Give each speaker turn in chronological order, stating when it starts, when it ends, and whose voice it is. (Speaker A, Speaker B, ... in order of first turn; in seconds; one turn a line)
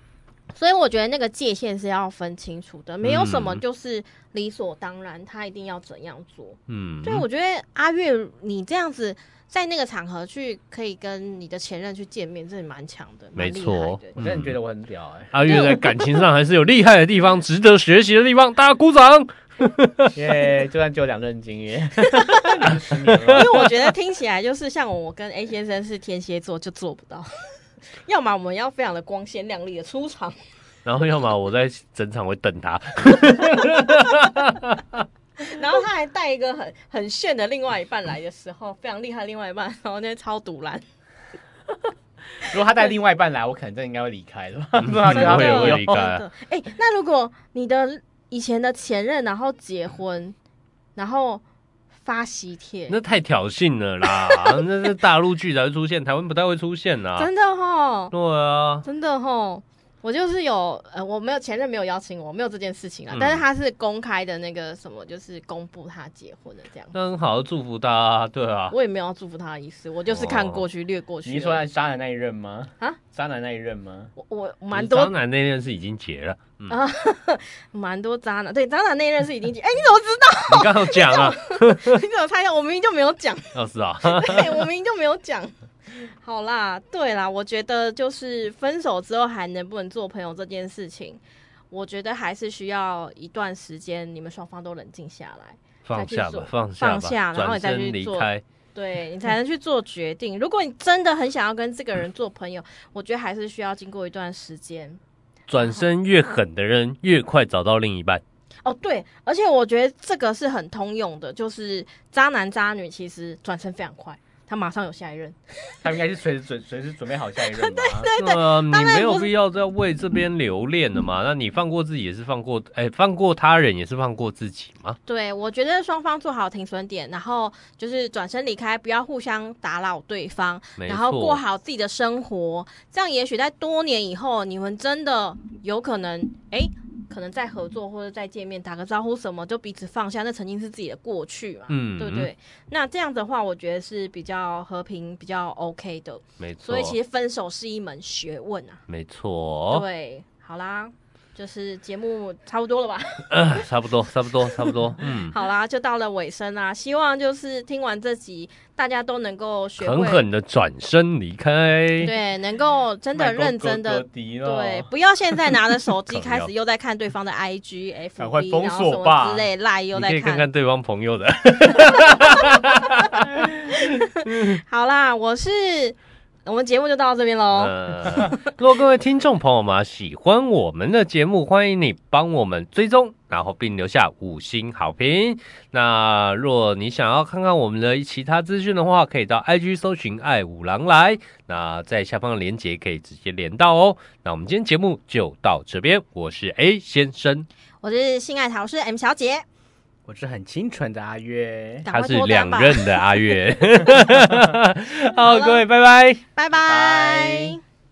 Speaker A: 0.5-14.2
Speaker B: 3.0-3.6
Speaker B: 6.7-7.2
Speaker B: 13.3-14.5
Speaker C: 14.2-15.5
Speaker B: 15.3-20.1
Speaker A: 15.5-16.2
Speaker C: 20.1-23.5
Speaker A: 22.0-22.7
Speaker B: 23.2-23.7
Speaker A: 23.3-30.4
Speaker B: 30.8-35.0
Speaker A: 35.4-40.8
Speaker C: 42.4-46.0
Speaker B: 44.8-46.2
Speaker A: 45.0-50.4
Speaker A: 51.0-51.4
Speaker A: 52.0-53.0
Speaker B: 52.9-57.3
Speaker A: 54.1-54.6
Speaker A: 57.2-58.1
Speaker B: 58.1-58.9
Speaker A: 58.8-66.9
Speaker B: 63.1-63.4
Speaker B: 66.9-68.7
Speaker A: 68.7-71.6
Speaker B: 70.1-70.6
Speaker C: 71.2-74.1
Speaker A: 74.2-75.1
Speaker B: 74.7-76.8
Speaker A: 76.7-105.0
Speaker B: 80.5-82.0
Speaker B: 83.5-84.5
Speaker B: 95.8-98.4
Speaker B: 105.5-108.2
Speaker A: 108.6-115.8
Speaker C: 115.8-118.1
Speaker A: 117.4-119.3
Speaker B: 118.2-125.0
Speaker A: 125.1-148.8
Speaker B: 130.8-131.4
Speaker B: 141.7-142.3
Speaker B: 146.4-146.9
Speaker B: 148.9-149.8
Speaker A: 149.7-153.7
Speaker B: 153.3-155.3
Speaker A: 154.5-160.2
Speaker B: 159.8-162.1
Speaker A: 162.0-170.5
Speaker C: 163.1-164.9
Speaker B: 166.1-166.5
Speaker C: 168.2-169.5
Speaker B: 169.9-173.3
Speaker A: 171.8-172.6
Speaker A: 173.6-178.4
Speaker B: 174.2-174.6
Speaker B: 177.5-197.5
Speaker A: 197.8-199.4
Speaker C: 200.1-201.8
Speaker A: 201.8-203.4
Speaker B: 201.9-206.2
Speaker C: 204.1-204.5
Speaker A: 205.2-205.6
Speaker A: 206.3-207.6
Speaker C: 206.6-207.6